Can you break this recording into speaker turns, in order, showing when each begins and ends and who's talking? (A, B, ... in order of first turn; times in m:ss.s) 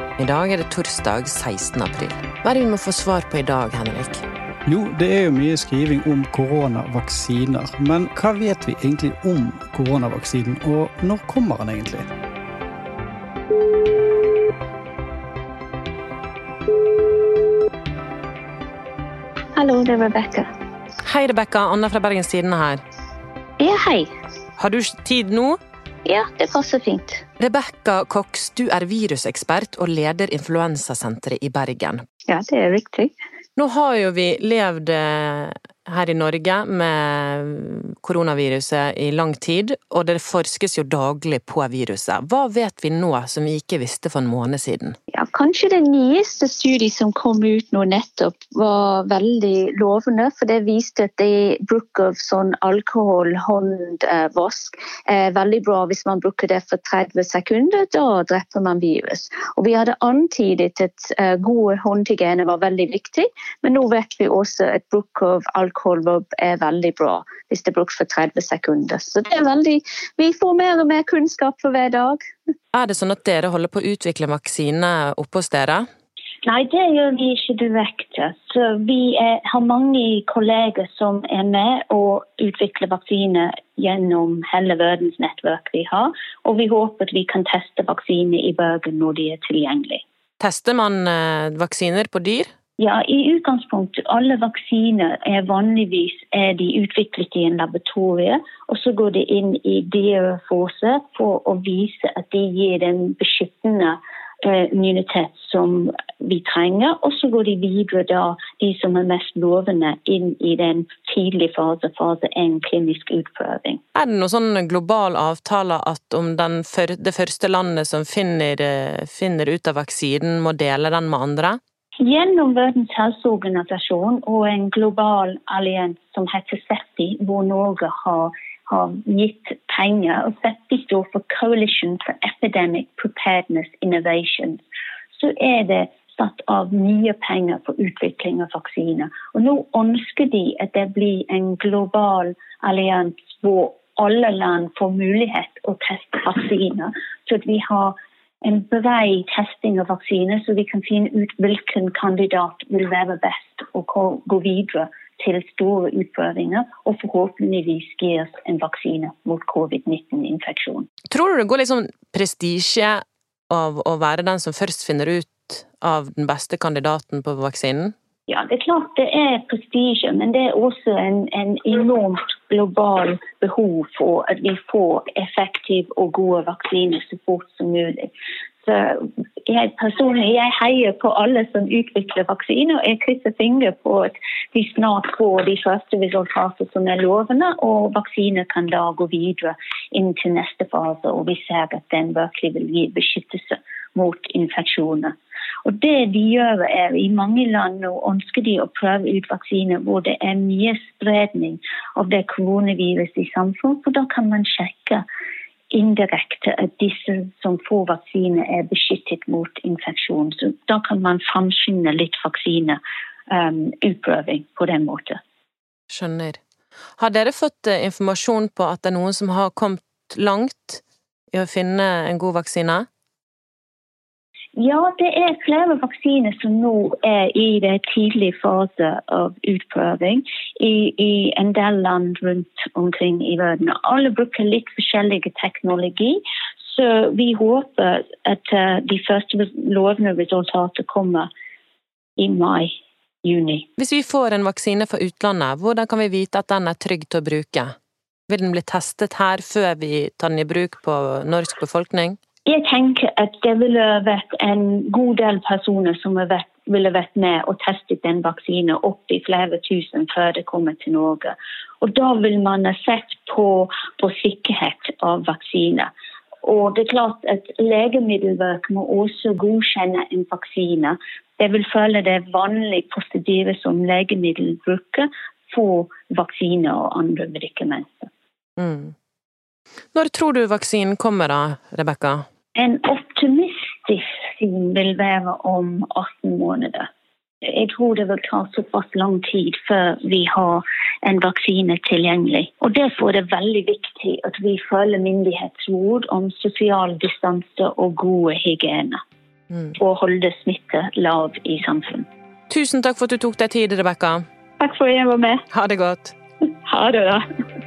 0:00.2-0:04.2 A
0:04.7-0:12.1 B
0:19.6-0:20.5 C
0:21.0-0:22.8 A
0:23.6-0:24.1 C
0:24.6-0:25.6 A
0:26.1-0:27.2 C
0:27.4-0:32.0 A
0:32.3-0:33.1 C
0:33.6-0:45.0 A
0:45.1-1:12.2 C
1:12.7-1:15.9 A
1:16.4-1:30.0 C
1:30.4-1:32.5 A
1:32.8-1:53.8 C
1:54.0-2:01.6 A
2:02.0-2:14.6 C
2:15.1-2:40.9 C
2:41.1-2:47.9 A
2:48.3-2:58.1 C
2:58.6-3:25.0 C
3:25.7-3:35.2 C
3:35.9-3:36.4 A
3:37.0-3:42.9 A
3:44.6-4:01.3 C
4:02.2-4:02.7 C
4:03.2-4:03.7 C
4:03.8-4:07.7 A
4:08.3-4:12.2 A
4:12.5-4:25.9 C
4:26.4-4:38.1 C
4:38.6-4:39.0 A
4:39.9-4:42.2 A
4:42.6-4:46.9 C
4:47.4-4:59.0 C
4:59.5-4:59.8 A
4:59.8-5:02.1 C
5:02.5-5:04.2 A
5:04.6-5:05.4 C
5:05.5-5:06.2 A
5:06.7-5:07.2 C